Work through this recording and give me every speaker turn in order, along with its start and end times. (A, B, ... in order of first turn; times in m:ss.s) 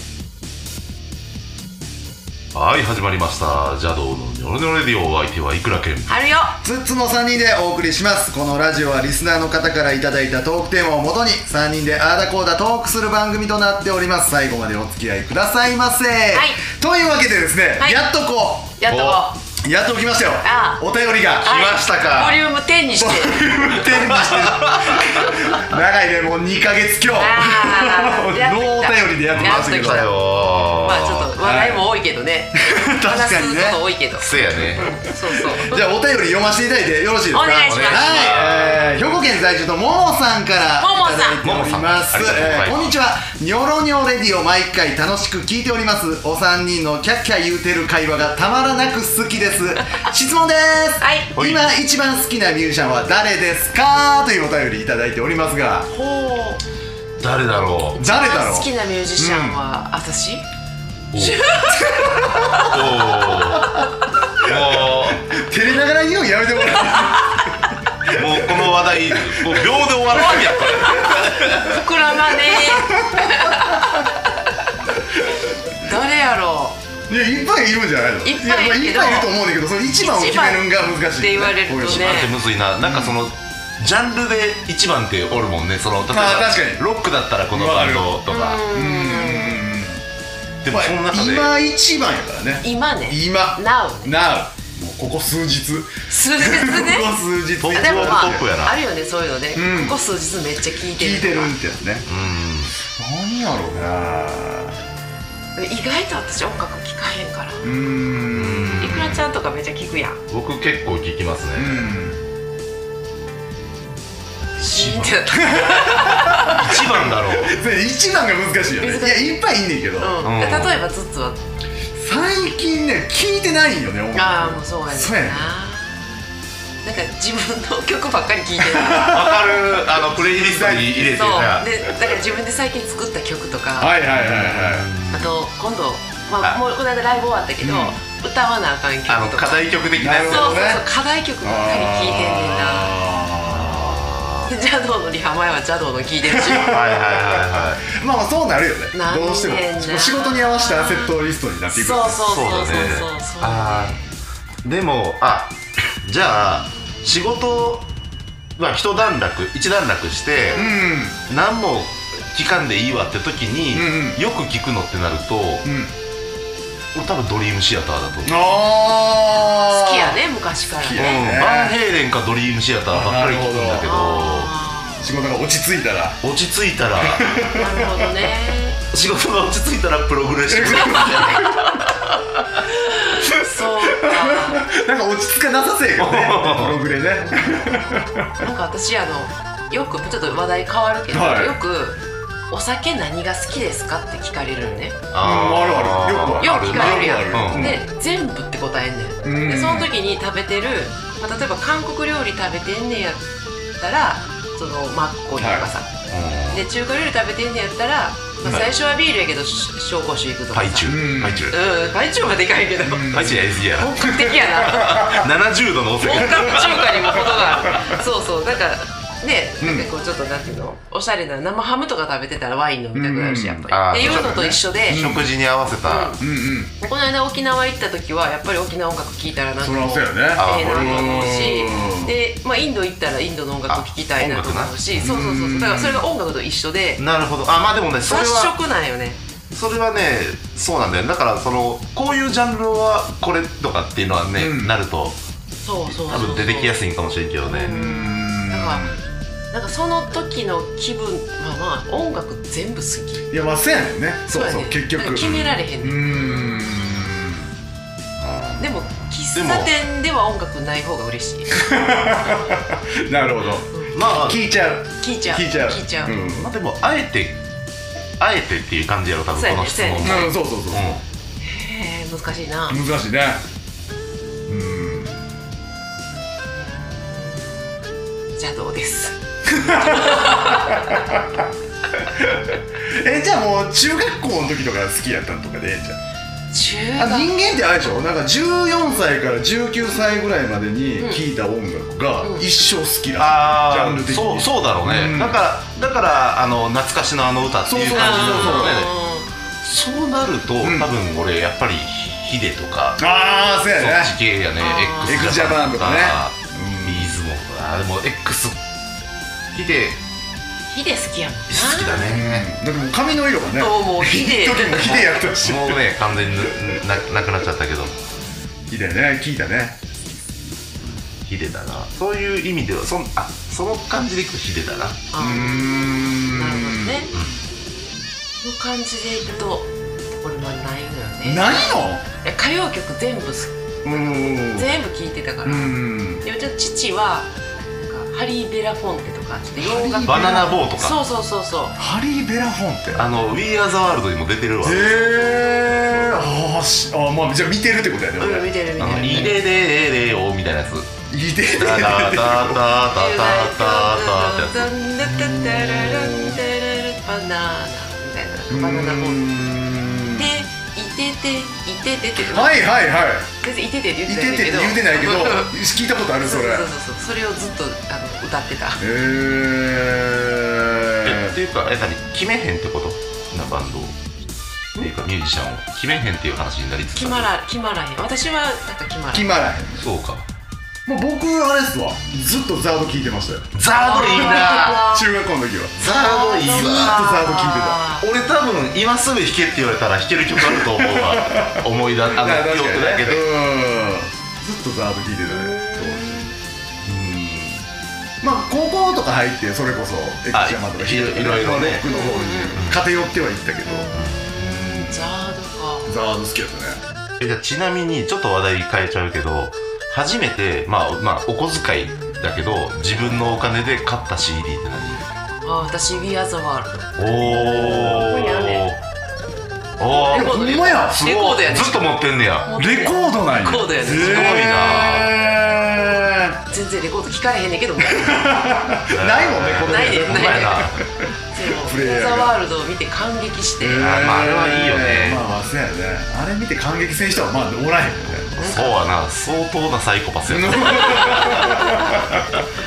0:02.5-0:06.1 A
0:06.1-0:06.6 B
0:06.6-0:18.8 C
0:16.3-0:16.6 B
0:18.8-0:19.4 B
0:18.9-0:19.3 A
0:19.6-0:21.5 C
0:20.4-0:20.8 B
0:21.4-0:22.4 A
0:21.4-0:23.8 B
0:23.0-0:30.1 C
0:23.9-0:25.3 A
0:27.1-0:30.2 B
0:29.3-0:31.3 A
0:30.8-0:35.8 B
0:31.4-0:31.9 C
0:32.6-0:33.8 C
0:34.2-0:34.9 A
0:34.6-0:55.9 C
0:37.3-0:38.4 B
0:37.7-0:39.0 A
0:40.8-0:41.4 B
0:41.4-0:43.0 A
0:51.0-0:51.3 B
0:51.4-0:51.7 A
0:55.9-0:56.6 B
0:57.2-0:58.0 A
0:58.0-0:59.6 C
0:58.0-1:00.4 B
1:01.1-1:01.5 A
1:01.2-1:03.8 B
1:02.4-1:03.8 A
1:04.4-1:05.3 A
1:04.5-1:10.5 C
1:08.2-1:11.8 A
1:10.1-1:14.7 B
1:12.4-1:13.9 C
1:15.8-1:16.8 B
1:17.1-1:22.2 C
1:18.2-1:19.3 B
1:20.0-1:22.4 B
1:21.8-1:28.7 A
1:22.8-1:23.2 C
1:26.1-1:26.8 C
1:27.5-1:28.2 C
1:28.3-1:29.6 B
1:28.7-1:30.0 C
1:30.6-1:31.5 A
1:30.7-1:38.4 C
1:32.6-1:34.1 B
1:36.1-1:37.1 B
1:37.6-1:38.8 A
1:37.8-1:41.5 B
1:39.6-1:40.0 C
1:40.9-1:42.1 C
1:42.1-1:42.8 A
1:43.0-1:44.8 C
1:45.6-1:47.7 B
1:47.6-1:49.1 C
1:48.3-1:49.2 A
1:48.8-1:50.2 B
1:50.3-1:52.0 A
1:51.6-1:52.2 C
1:54.6-1:55.1 A
1:54.6-1:56.7 B
1:55.5-2:00.2 C
1:56.5-1:57.6 A
1:58.8-1:59.4 B
2:00.0-2:01.4 B
2:00.2-2:00.8 A
2:02.0-2:05.5 C
2:04.1-2:06.1 B
2:06.8-2:09.3 B
2:08.6-2:11.4 C
2:09.1-2:11.7 A
2:11.1-2:14.0 B
2:13.8-2:14.9 C
2:14.1-2:15.4 A
2:15.1-2:19.7 B
2:17.6-2:18.0 C
2:19.1-2:20.7 A
2:20.0-2:20.8 C
2:20.3-2:23.2 B
2:21.4-2:23.9 C
2:23.4-2:24.5 A
2:24.4-2:26.8 B
2:26.3-2:32.2 C
2:26.7-2:27.8 A
2:28.9-2:31.2 B
2:31.7-2:34.1 B
2:32.2-2:34.0 A
2:34.6-2:37.9 A
2:38.6-2:40.7 A
2:40.5-2:40.9 B
2:40.6-2:41.2 C
2:41.3-2:45.7 A
2:43.7-2:44.2 C
2:45.6-2:45.9 C
2:46.9-2:48.6 A
2:48.2-2:50.2 C
2:49.3-2:51.3 B
2:50.8-2:51.8 C
2:51.0-2:54.5 A
2:52.9-2:53.9 C
2:53.8-2:55.1 B
2:55.0-2:56.2 C
2:56.2-2:57.3 A
2:57.0-2:58.1 C
2:57.5-2:58.8 B
2:58.9-3:02.0 A
3:00.5-3:01.7 C
3:00.9-3:01.4 B
3:02.7-3:04.6 B
3:03.9-3:08.3 C
3:06.0-3:06.8 A
3:07.2-3:07.8 B
3:08.4-3:12.0 B
3:11.1-3:11.6 C
3:12.5-3:15.0 B
3:15.1-3:17.8 A
3:15.2-3:17.8 C
3:16.4-3:25.9 B
3:19.2-3:19.9 C
3:25.4-3:25.7 C
3:26.1-3:26.6 A
3:26.5-3:35.1 B
3:30.5-3:31.6 A
3:30.9-3:31.5 C
3:32.8-3:33.4 C
3:33.1-3:37.1 A
3:34.0-3:35.3 C
3:36.0-3:45.1 B
3:37.3-3:37.9 C
3:39.6-3:39.9 C
3:42.9-3:45.3 C
3:43.7-3:46.2 A
3:45.8-3:46.2 B
3:46.2-3:46.7 C
3:46.8-3:57.0 B
3:49.6-3:52.2 C
3:50.4-3:51.5 A
3:53.7-3:55.2 A
3:55.0-3:56.1 C
3:57.0-3:58.6 A
3:58.0-3:59.2 B
3:59.5-4:05.2 A
4:04.4-4:04.7 C
4:05.6-4:06.8 B
4:05.9-4:07.8 A
4:07.5-4:08.9 B
4:07.6-4:09.0 C
4:09.5-4:13.3 B
4:13.3-4:17.5 C
4:14.3-4:16.8 B
4:18.2-4:18.8 A
4:18.6-4:21.6 B
4:19.3-4:19.7 A
4:21.5-4:26.5 C
4:23.6-4:24.0 B
4:23.9-4:24.4 A
4:25.0-4:26.3 B
4:26.3-4:27.4 A
4:28.2-4:31.0 A
4:29.3-4:30.4 B
4:30.0-4:30.8 C
4:31.4-4:32.8 B
4:32.7-4:33.4 C
4:34.5-4:35.2 C
4:36.6-4:37.5 B
4:38.4-4:41.2 B
4:39.5-4:41.4 C
4:42.1-4:46.0 C
4:46.5-4:47.4 B
4:47.0-4:55.4 C
4:53.2-4:58.9 A
4:57.6-4:58.9 C
4:57.9-4:59.3 B
4:59.6-5:03.0 A
5:00.6-5:00.9 C
5:03.0-5:04.2 C
5:03.8-5:08.6 A
5:04.6-5:05.3 B
5:05.0-5:07.1 C
5:09.5-5:10.0 A
5:10.7-5:12.2 B
5:11.5-5:12.5 A
5:12.0-5:16.9 C
5:13.6-5:15.1 B
5:14.8-5:18.0 A
5:18.7-5:19.8 C
5:20.9-5:25.0 A
5:25.1-5:27.1 B
5:25.2-5:27.2 C
5:28.4-5:31.7 B
5:31.2-5:32.0 C
5:32.2-5:41.8 B
5:33.8-5:34.7 C
5:35.4-5:36.2 C
5:39.6-5:40.6 C
5:40.0-5:41.0 A
5:41.8-5:43.0 C
5:43.0-5:44.9 A
5:44.6-5:49.3 C
5:45.1-5:45.9 B
5:48.2-5:49.4 B
5:48.8-5:50.9 A
5:51.1-5:52.6 C
5:51.5-5:54.7 A
5:52.9-5:59.5 B
5:55.0-5:56.4 C
5:58.5-6:00.3 C
6:00.1-6:02.6 B
6:02.2-6:03.3 C
6:03.4-6:05.5 B
6:04.1-6:06.7 C
6:06.2-6:08.8 B
6:08.8-6:11.4 C
6:11.0-6:14.0 A
6:14.8-6:17.3 A
6:16.9-6:19.3 B
6:19.1-6:19.9 C
6:19.8-6:20.3 A
6:20.9-6:25.9 C
6:23.5-6:24.9 A
6:23.7-6:25.1 B
6:25.8-6:27.0 A
6:25.8-6:28.0 B
6:26.5-6:27.8 C
6:28.0-6:33.3 A
6:30.4-6:31.7 C
6:32.2-6:36.3 C
6:35.3-6:36.3 B
6:36.8-6:37.6 C
6:38.2-6:45.1 C
6:40.3-6:41.9 A
6:41.8-6:42.6 B
6:42.6-6:42.8 A
6:43.6-6:46.0 B
6:43.9-6:44.3 A
6:45.9-6:46.8 C
6:47.2-6:55.0 A
6:55.4-6:56.9 B
6:57.0-6:58.8 A
6:57.2-6:58.1 C
6:57.8-6:58.7 B
6:59.8-7:02.5 A
7:00.1-7:04.6 B
7:00.1-7:01.0 C
7:02.6-7:06.4 C
7:03.7-7:05.1 A
7:06.5-7:08.6 B
7:07.9-7:12.4 C
7:08.9-7:10.9 A
7:09.6-7:10.7 B
7:11.3-7:14.0 B
7:13.6-7:18.4 C
7:13.8-7:15.3 A
7:18.4-7:21.6 A
7:18.4-7:18.8 B
7:20.3-7:22.4 C
7:20.7-7:22.2 B